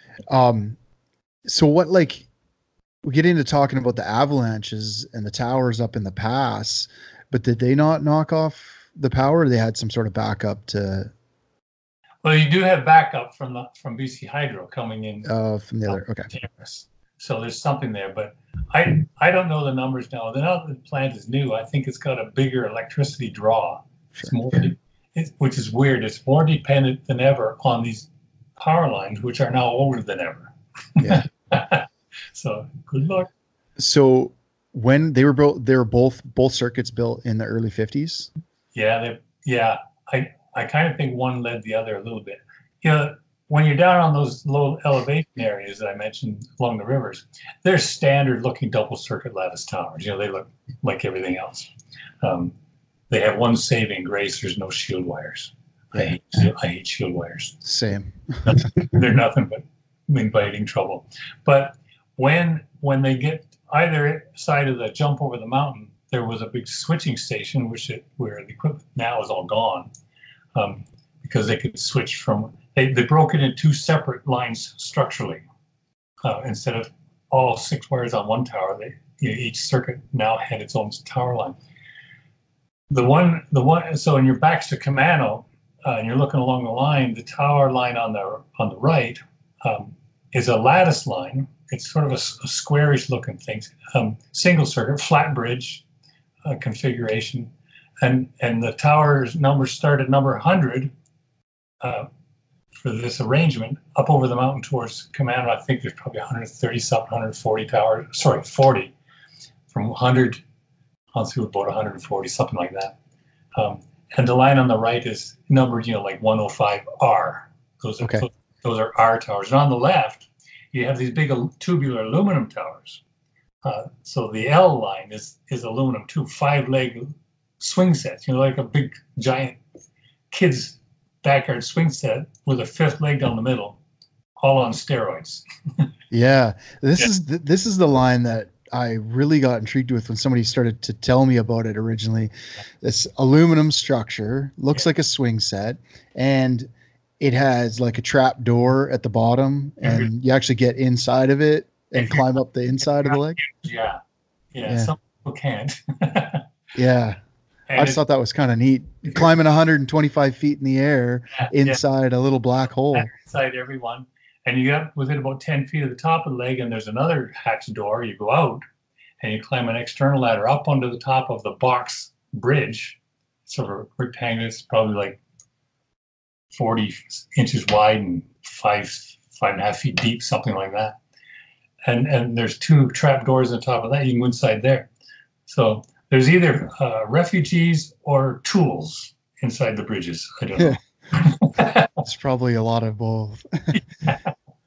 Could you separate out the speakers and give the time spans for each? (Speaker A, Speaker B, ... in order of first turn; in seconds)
Speaker A: 0.3-0.8, 1.5-2.3, 3.0-11.1, 15.2-16.3, 31.0-31.3, 33.8-38.3, 57.6-58.9, 136.1-146.7, 147.2-153.4, 154.7-154.9, 156.8-157.2, 157.8-163.1, 192.0-193.8
Speaker B: 12.2-15.3, 15.9-33.3, 38.8-51.7, 52.2-52.5, 53.1-57.6, 58.4-69.9, 70.5-75.4, 76.2-81.6, 82.9-95.8, 96.5-100.9, 101.8-102.1, 102.8-109.0, 109.7-110.4, 111.2-113.0, 113.6-123.0, 123.6-129.6, 130.3-133.8, 134.4-135.4, 149.8-150.1, 152.0-152.3, 153.0-154.0, 154.5-156.4, 157.7-158.0, 161.3-161.8, 162.9-168.6, 169.2-175.2, 176.5-181.0, 181.9-184.9, 185.5-192.0, 193.7-194.3